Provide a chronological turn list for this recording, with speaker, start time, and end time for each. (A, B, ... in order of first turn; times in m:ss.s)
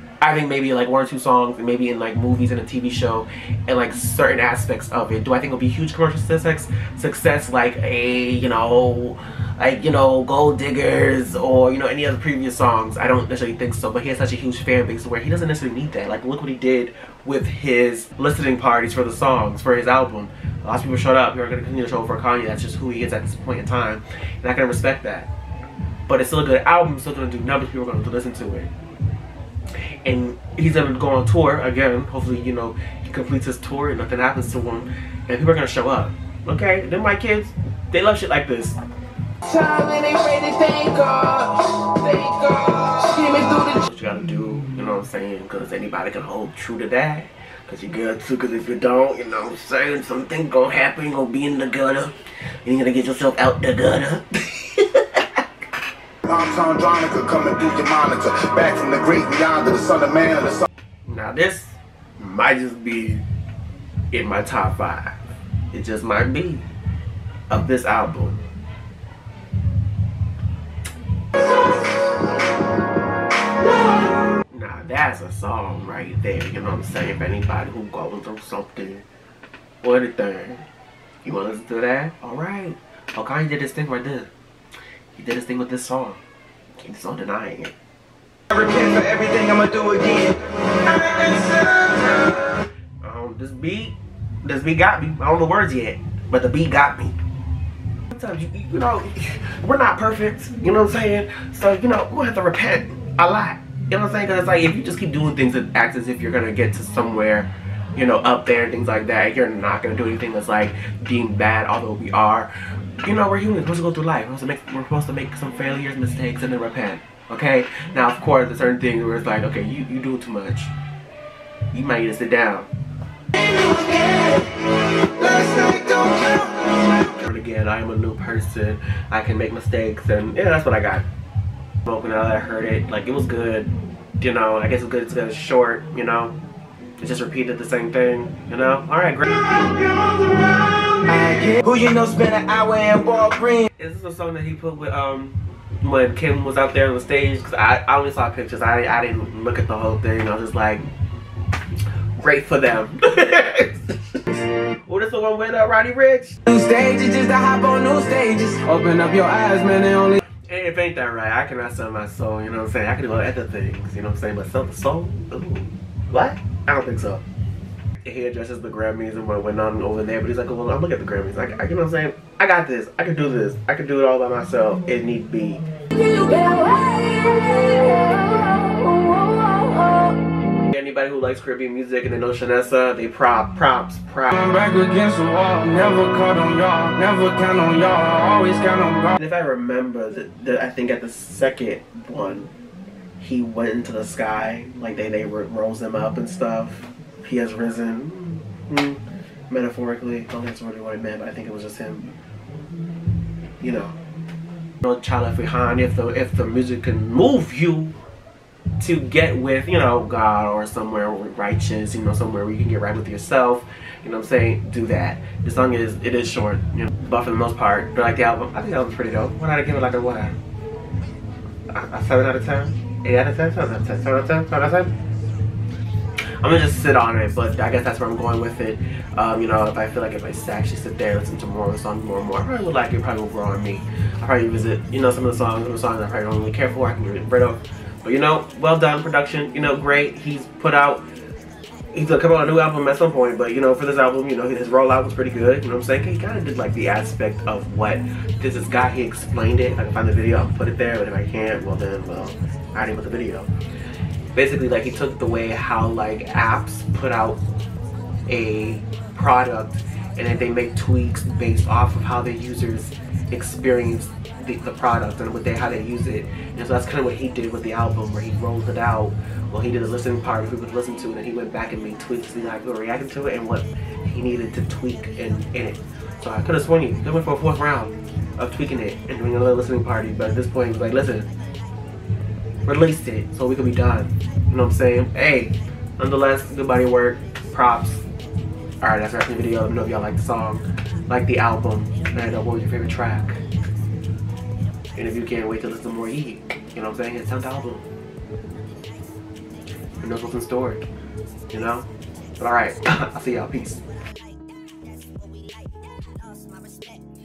0:00.2-0:25.3 A
0:26.1-0:28.7 A
0:30.0-0:38.8 A
0:39.4-0:43.7 B
0:43.7-0:55.4 A
0:56.2-1:00.7 C
1:01.0-1:03.2 A
1:04.1-1:06.6 A
1:07.5-1:08.4 A
1:14.5-1:19.0 A
1:19.8-1:20.6 A
1:21.2-1:24.3 A
1:25.2-1:26.2 A
1:26.8-1:27.7 A
1:28.5-1:32.5 B
1:33.0-1:37.2 A
1:38.1-1:52.5 A
1:53.0-2:00.7 A
2:01.7-2:02.7 A
2:03.3-2:07.1 B
2:07.1-2:11.0 A
2:11.8-2:16.3 A
2:17.0-2:19.3 A
2:19.3-2:23.7 B
2:23.8-2:30.8 A
2:32.2-2:34.2 A
2:34.8-2:36.4 A
2:36.4-2:40.2 B
2:40.5-2:47.2 A
2:48.0-2:55.6 A
2:55.9-3:00.1 B
3:00.6-3:04.5 A
3:04.3-3:09.2 B
3:09.2-3:12.5 A
3:13.2-3:22.1 A
3:23.6-3:24.0 A
3:24.8-3:28.0 A
3:28.8-3:40.3 A
3:41.7-3:44.9 A
3:46.4-4:01.0 A
4:01.9-4:13.5 A
4:14.3-4:17.4 A
4:18.3-4:41.3 A
4:42.6-4:48.0 A
4:48.8-4:53.4 A
4:54.9-4:57.8 A
5:00.0-5:00.9 A
5:01.5-5:01.8 A
5:02.4-5:03.8 A
5:04.1-5:07.1 C